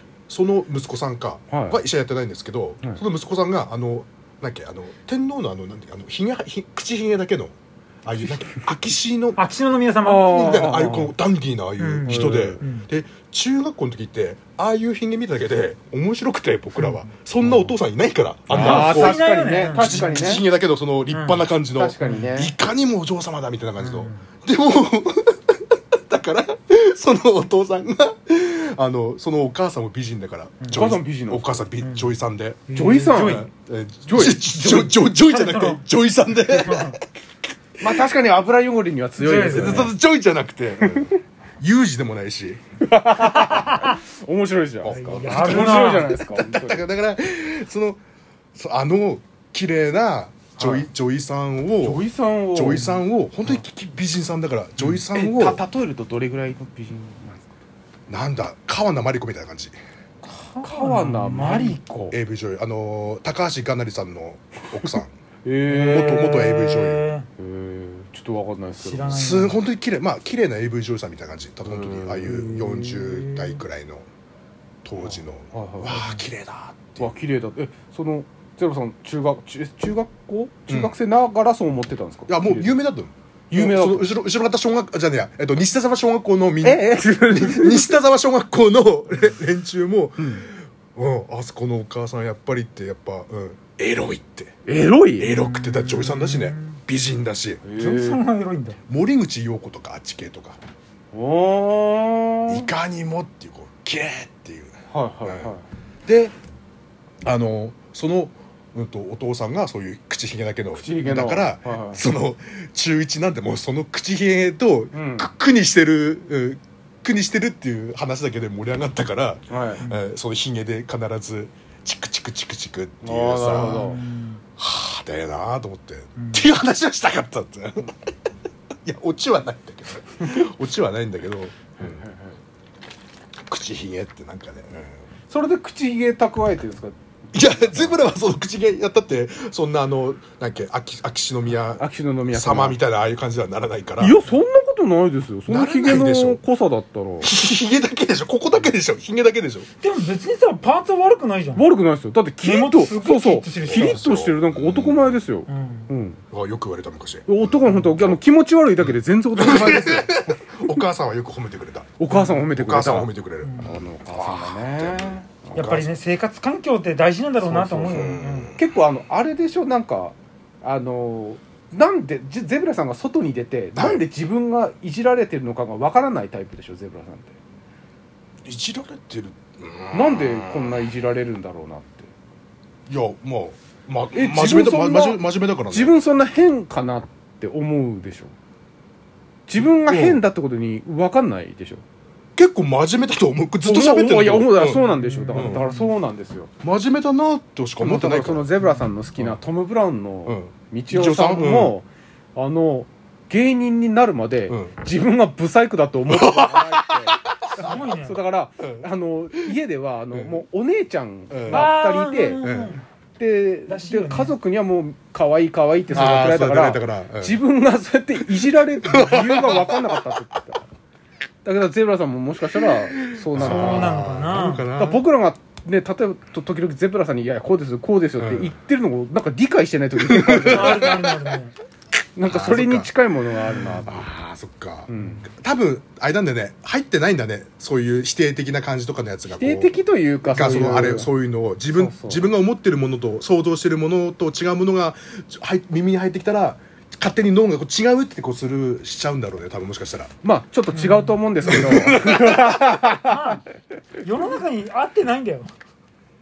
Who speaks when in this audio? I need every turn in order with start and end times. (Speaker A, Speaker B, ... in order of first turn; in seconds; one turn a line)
Speaker A: 0.3-9.4
Speaker B: 1.5-1.8
Speaker C: 9.4-10.9
Speaker B: 10.0-11.1
Speaker A: 10.2-19.2
Speaker C: 11.8-12.9
Speaker B: 12.1-12.6
Speaker C: 16.8-17.1
Speaker C: 18.5-20.4
Speaker B: 18.5-20.4
Speaker A: 19.8-37.0
Speaker C: 21.1-21.5
Speaker B: 21.8-22.5
Speaker C: 23.8-24.2
Speaker B: 30.7-31.6
Speaker C: 31.8-32.1
Speaker C: 32.7-33.5
Speaker B: 32.7-33.5
Speaker B: 34.1-34.9
Speaker C: 34.7-35.8
Speaker C: 36.5-37.0
Speaker B: 37.8-40.0
Speaker A: 37.8-38.1
Speaker C: 39.2-39.9
Speaker A: 39.4-42.6
Speaker B: 40.9-41.1
Speaker B: 42.8-46.8
Speaker C: 43.4-43.9
Speaker A: 44.8-48.0
Speaker C: 44.9-46.2
Speaker A: 48.5-55.6
Speaker B: 50.6-50.9
Speaker B: 51.8-53.6
Speaker B: 54.8-57.5
Speaker A: 58.1-59.8
Speaker C: 60.4-61.8
Speaker B: 60.6-62.2
Speaker A: 62.1-65.1
Speaker B: 64.8-66.7
Speaker C: 65.7-67.3
Speaker A: 65.9-67.1
Speaker B: 67.4-69.2
Speaker C: 68.8-69.6
Speaker A: 69.1-74.1
Speaker B: 71.6-73.3
Speaker A: 74.8-77.1
Speaker B: 75.0-76.1
Speaker C: 75.9-76.2
Speaker B: 77.0-82.8
Speaker A: 80.7-80.9
Speaker A: 82.3-94.5
Speaker B: 83.5-84.2
Speaker B: 86.6-88.0
Speaker B: 90.2-90.5
Speaker B: 94.7-95.4
Speaker A: 95.2-97.7
Speaker C: 95.3-96.8
Speaker B: 97.6-98.2
Speaker C: 97.8-98.8
Speaker A: 98.9-100.6
Speaker B: 101.1-102.7
Speaker A: 102.5-105.5
Speaker B: 104.9-105.7
Speaker A: 106.1-106.3
Speaker A: 107.2-124.0
Speaker B: 110.7-112.0
Speaker B: 114.9-115.3
Speaker B: 119.5-119.9
Speaker B: 123.0-124.0
Speaker C: 123.5-124.4
Speaker A: 124.6-128.0
Speaker C: 126.2-126.5
Speaker A: 128.8-132.0
Speaker B: 131.8-132.4
Speaker A: 133.5-135.0
Speaker B: 135.3-138.0
Speaker A: 137.3-144.2
Speaker B: 141.8-142.8
Speaker B: 144.0-147.3
Speaker A: 145.5-146.4
Speaker A: 147.2-149.7
Speaker C: 149.8-151.7
Speaker B: 151.6-156.2
Speaker C: 152.4-154.0
Speaker A: 153.6-155.2
Speaker C: 155.5-155.9
Speaker A: 156.3-158.2
Speaker B: 157.3-160.8
Speaker A: 159.4-162.0
Speaker B: 162.0-165.7
Speaker C: 162.1-162.4
Speaker A: 162.5-165.9
Speaker C: 163.4-163.7
Speaker C: 165.6-168.5
Speaker B: 167.4-177.4
Speaker A: 167.9-168.6
Speaker A: 173.8-174.1
Speaker A: 178.4-180.8
Speaker B: 179.9-182.1
Speaker A: 182.9-186.0
Speaker B: 184.1-188.3
Speaker B: 189.5-191.8
Speaker A: 189.6-190.2
Speaker A: 192.4-195.6
Speaker B: 193.6-196.5
Speaker C: 194.8-195.9
Speaker A: 196.6-198.5
Speaker B: 197.8-212.5
Speaker C: 198.6-198.9
Speaker A: 200.3-201.8
Speaker A: 204.5-204.8
Speaker A: 206.1-207.8
Speaker C: 207.6-208.2
Speaker A: 208.6-209.5
Speaker A: 210.1-210.4
Speaker A: 211.3-211.7
Speaker C: 211.5-212.9
Speaker A: 212.4-212.8
Speaker B: 213.2-220.7
Speaker C: 213.7-214.4
Speaker C: 215.9-216.2
Speaker A: 215.9-217.4
Speaker A: 218.8-220.1
Speaker B: 221.4-224.0
Speaker A: 223.1-225.1
Speaker C: 223.3-224.7
Speaker B: 224.7-231.1
Speaker A: 228.2-228.5
Speaker A: 230.0-231.2
Speaker C: 230.4-231.6
Speaker B: 232.2-234.1
Speaker A: 232.3-232.9
Speaker A: 233.5-250.1
Speaker B: 234.9-235.3
Speaker B: 239.3-241.1
Speaker B: 241.7-242.3
Speaker B: 250.2-253.3
Speaker C: 250.7-251.2
Speaker A: 251.5-252.8
Speaker C: 252.9-253.4
Speaker C: 254.0-255.5